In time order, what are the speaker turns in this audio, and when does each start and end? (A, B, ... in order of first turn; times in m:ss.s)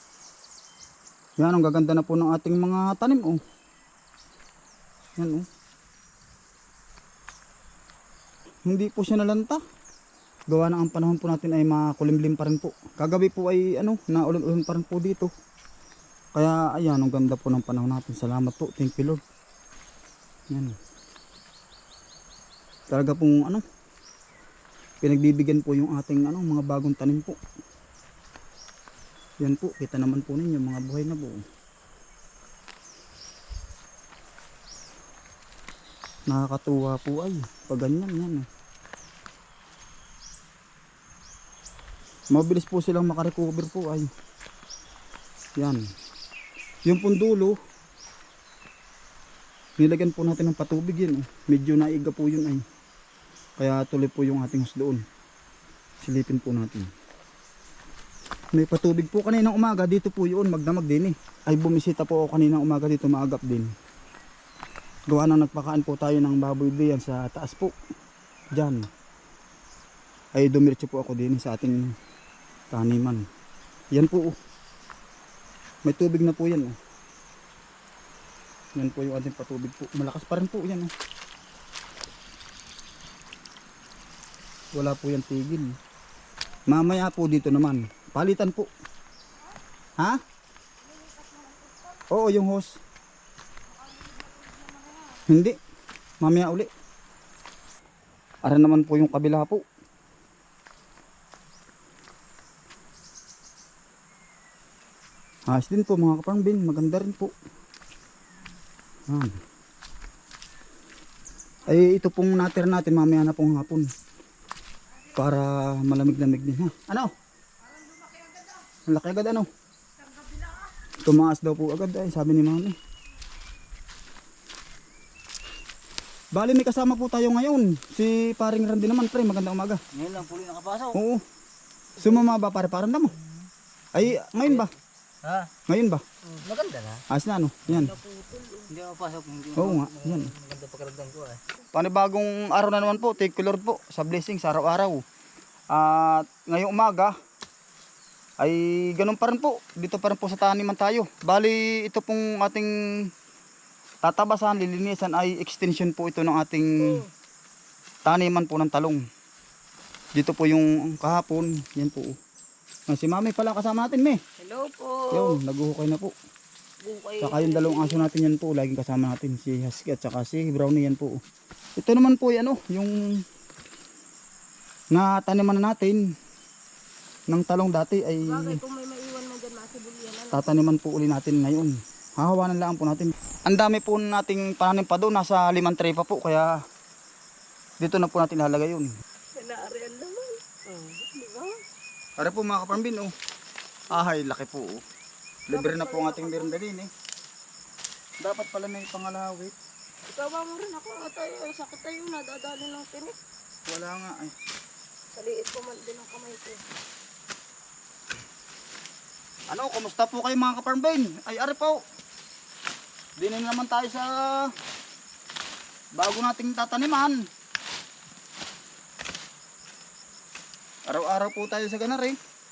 0:01.4-0:03.4 A
0:05.2-0:05.5 A
0:08.7-0:09.6 A
0:10.5-0:15.3 A
0:16.3-0:19.2 A
0:20.5-0:20.8 A
0:22.9-0:23.6 A
0:25.0-0:27.4 A
0:29.4-0:31.4 A
0:36.3-0:38.5 A
0:42.3-0:44.1 A
0:45.6-0:45.8 A
0:46.8-0:47.6 A
0:49.8-0:52.6 A
0:53.6-0:55.0 A
0:56.0-0:56.9 A
0:58.5-1:03.7 A
1:05.1-1:07.7 A
1:08.5-1:08.9 A
1:10.3-1:11.9 A
1:12.7-1:13.2 A
1:13.9-1:14.3 A
1:15.8-1:16.8 A
1:18.7-1:20.9 A
1:24.7-1:25.8 A
1:26.7-1:28.7 A
1:30.8-1:32.0 B
1:32.1-1:32.8 A
1:33.7-1:35.2 B
1:35.2-1:35.6 A
1:36.2-1:36.7 A
1:38.4-1:39.6 A
1:45.5-1:47.3 A
1:49.1-1:49.4 A
1:51.7-1:53.9 A
1:55.1-1:57.1 A
1:57.7-1:58.6 B
1:58.8-1:59.5 A
2:00.2-2:00.6 B
2:01.0-2:02.8 A
2:06.3-2:09.8 A
2:09.9-2:11.0 C
2:10.9-2:11.2 A
2:12.0-2:13.2 A
2:13.2-2:15.5 C
2:13.9-2:14.7 A
2:15.7-2:16.0 A
2:16.4-2:17.0 C
2:17.1-2:18.0 A
2:17.8-2:18.7 B
2:18.7-2:21.4 C
2:19.6-2:20.3 A
2:21.7-2:25.0 A
2:25.7-2:27.1 A
2:28.4-2:33.1 A
2:34.0-2:37.0 A
2:36.8-2:37.1 B
2:38.0-2:39.0 A
2:40.2-2:42.2 A
2:42.9-2:44.2 A
2:44.4-2:45.4 B
2:45.1-2:46.1 A
2:46.8-2:48.1 B
2:47.2-2:51.2 A
2:51.8-2:53.2 A
2:54.9-2:56.0 A
2:57.3-2:58.6 A
2:58.2-3:00.5 B
3:00.3-3:06.5 A
3:07.8-3:08.9 A
3:09.4-3:11.5 B
3:12.2-3:13.1 A
3:13.9-3:14.8 A
3:15.5-3:16.9 A
3:15.5-3:16.6 B
3:18.2-3:19.5 A
3:20.1-3:23.2 B
3:23.7-3:24.3 A
3:25.1-3:26.6 B
3:29.5-3:31.8 A
3:33.2-3:34.5 A
3:36.0-3:37.2 A
3:40.9-3:42.2 A